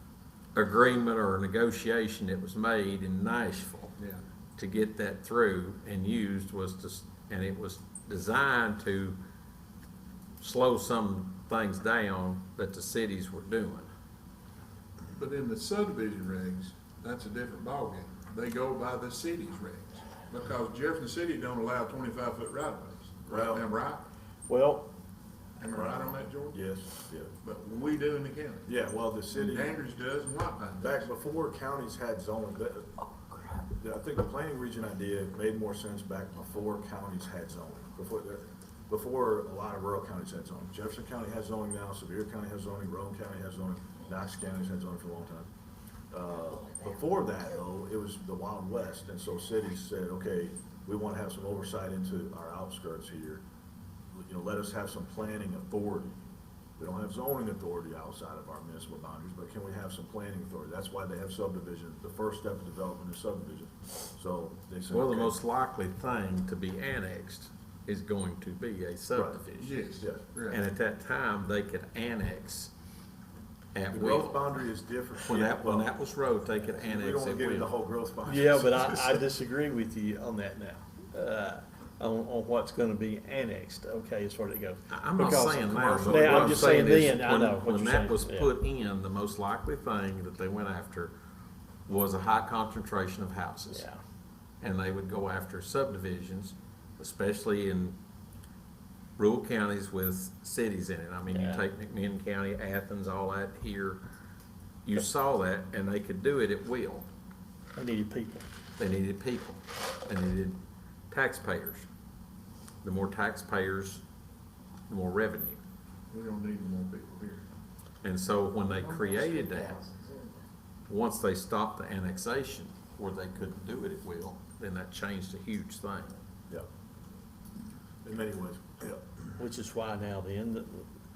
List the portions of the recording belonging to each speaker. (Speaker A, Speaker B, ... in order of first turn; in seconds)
Speaker A: 0.5-3.9, 4.6-9.2, 10.4-13.9, 64.9-69.8, 70.5-72.7, 73.7-74.4, 75.2-77.7, 84.9-91.1, 91.9-93.8, 94.6-98.0, 99.2-104.0, 104.8-107.1, 108.8-110.6, 111.1-111.9, 112.8-114.0, 114.9-115.6, 118.0-119.9, 120.9-126.1
Speaker B: 15.2-24.0, 25.6-26.7, 27.4-28.7, 29.3-31.1, 69.6-70.6, 116.1-117.5
Speaker C: 23.3-23.6, 25.7-27.3, 28.7-29.8, 30.8-32.9, 33.6-45.5, 46.1-53.4, 54.1-56.2, 56.8-65.3, 69.1-69.4, 73.9-75.9, 76.6-79.2, 85.9-86.8, 128.0-129.0
Speaker D: 24.5-24.9, 78.2-88.5, 93.7-94.0, 101.3-101.6, 107.8-108.4, 129.4-130.9